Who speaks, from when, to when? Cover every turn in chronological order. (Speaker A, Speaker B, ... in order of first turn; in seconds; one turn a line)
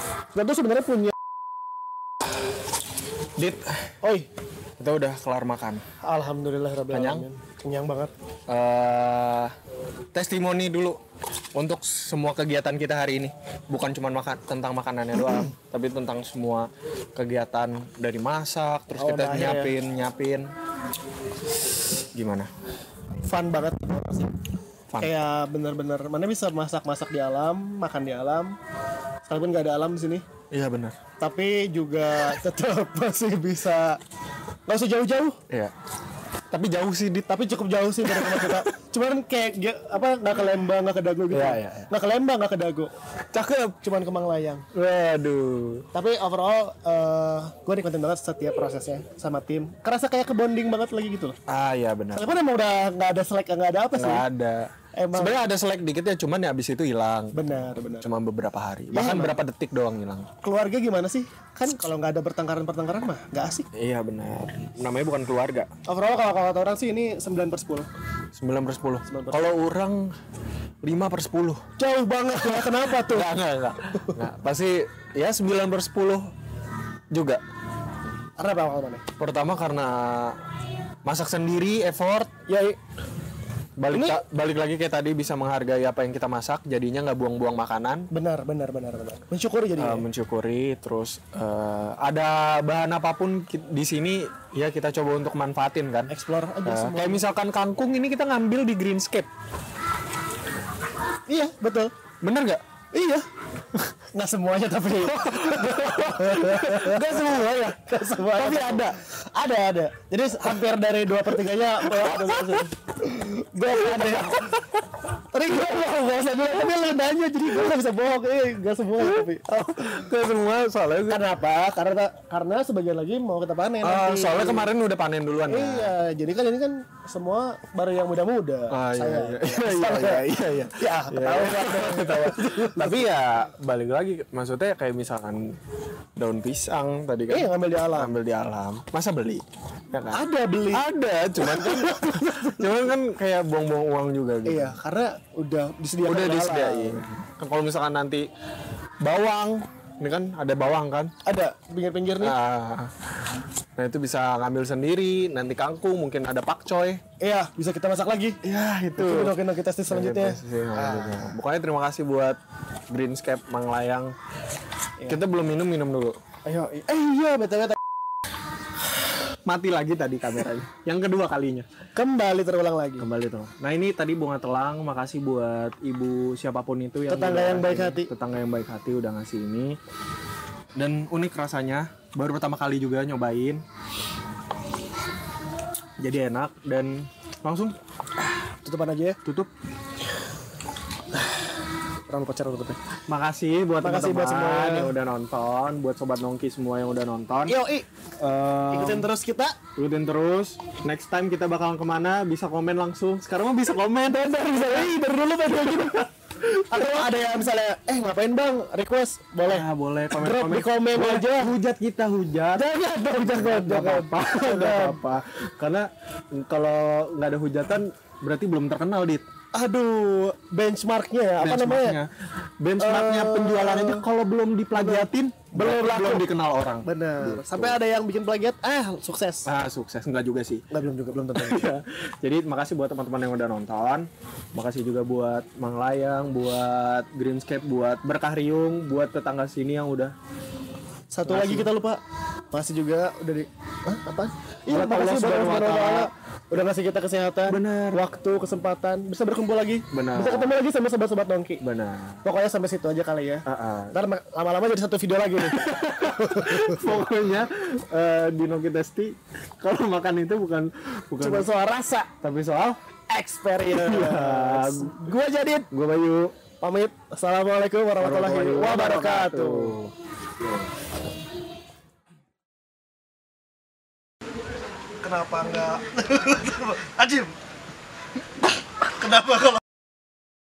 Speaker A: 0.3-1.1
Speaker B: 3.4-3.7
Speaker B: 4.8-5.8
Speaker A: 6.0-8.1
Speaker B: 6.9-7.2
Speaker B: 8.5-9.5
Speaker B: 10.1-11.0
Speaker B: 11.5-20.5
Speaker A: 18.9-19.7
Speaker B: 22.1-22.5
Speaker A: 23.2-24.3
Speaker A: 25.0-28.6
Speaker A: 29.3-30.2
Speaker B: 30.5-31.0
Speaker A: 31.2-34.0
Speaker A: 34.7-35.4
Speaker B: 36.5-37.4
Speaker A: 37.3-42.9
Speaker B: 38.0-38.7
Speaker B: 41.3-41.9
Speaker B: 43.3-43.8
Speaker A: 43.8-44.6
Speaker B: 44.7-45.9
Speaker A: 45.9-51.4
Speaker B: 51.5-52.4
Speaker A: 52.1-54.2
Speaker B: 53.9-60.3
Speaker A: 54.9-55.4
Speaker A: 57.3-58.1
Speaker A: 58.9-59.4
Speaker A: 60.4-63.6
Speaker B: 63.8-65.7
Speaker A: 65.9-67.9
Speaker B: 68.3-70.1
Speaker A: 69.0-69.5
Speaker B: 70.8-71.6
Speaker A: 71.8-73.3
Speaker B: 72.6-76.3
Speaker B: 77.1-77.4
Speaker A: 78.4-79.0
Speaker B: 79.2-80.4
Speaker B: 81.0-82.3
Speaker A: 82.5-82.8
Speaker B: 83.8-88.1
Speaker A: 83.9-84.2
Speaker A: 88.1-90.0
Speaker B: 89.8-96.1
Speaker A: 96.1-97.2
Speaker B: 96.6-99.3
Speaker A: 101.3-101.9
Speaker B: 102.2-102.6
Speaker A: 102.9-103.2
Speaker A: 104.1-107.1
Speaker B: 105.1-109.0
Speaker A: 107.8-114.5
Speaker B: 111.9-112.6
Speaker B: 113.9-114.5
Speaker A: 115.3-119.4
Speaker B: 119.0-121.2
Speaker A: 121.1-124.7
Speaker B: 123.8-125.9
Speaker A: 125.5-133.2
Speaker B: 128.7-135.6
Speaker B: 136.2-144.8
Speaker A: 137.3-138.1
Speaker A: 140.1-140.9
Speaker A: 141.4-142.6
Speaker A: 144.4-147.1
Speaker B: 146.0-148.2
Speaker B: 149.0-151.1
Speaker A: 151.2-152.4
Speaker B: 152.2-152.9
Speaker B: 153.8-157.0
Speaker A: 157.2-158.4
Speaker B: 158.4-162.4
Speaker A: 159.0-161.3
Speaker B: 162.9-164.1
Speaker B: 165.1-166.2
Speaker A: 166.4-167.8
Speaker B: 169.5-171.7
Speaker A: 171.9-173.1
Speaker B: 173.0-179.8
Speaker A: 177.1-178.1
Speaker B: 180.8-183.6
Speaker B: 186.0-187.8
Speaker A: 188.6-189.2
Speaker B: 189.2-189.5
Speaker A: 192.1-192.8
Speaker B: 193.1-197.6
Speaker A: 193.8-194.9
Speaker A: 197.5-197.8
Speaker B: 198.2-199.1
Speaker A: 198.7-199.6
Speaker B: 199.8-207.2
Speaker A: 204.3-206.1
Speaker A: 206.7-211.5
Speaker B: 209.4-219.2
Speaker A: 212.5-215.0
Speaker A: 219.5-222.0
Speaker B: 221.4-222.1
Speaker B: 222.6-227.8
Speaker A: 222.8-224.0
Speaker A: 224.7-226.3
Speaker A: 226.8-229.5
Speaker B: 229.4-230.7
Speaker A: 230.7-231.7
Speaker B: 231.3-240.1
Speaker A: 241.1-242.0
Speaker B: 241.3-241.7
Speaker A: 242.5-251.6
Speaker B: 244.7-246.1
Speaker B: 247.5-248.0
Speaker B: 249.9-250.6
Speaker B: 251.6-252.2
Speaker A: 252.2-256.9
Speaker B: 253.4-253.9
Speaker B: 255.5-261.5
Speaker A: 261.2-262.1
Speaker B: 262.2-262.8
Speaker A: 263.1-265.6
Speaker B: 263.7-266.3
Speaker A: 266.6-269.8
Speaker B: 268.0-269.9
Speaker A: 275.0-277.3
Speaker A: 278.8-279.6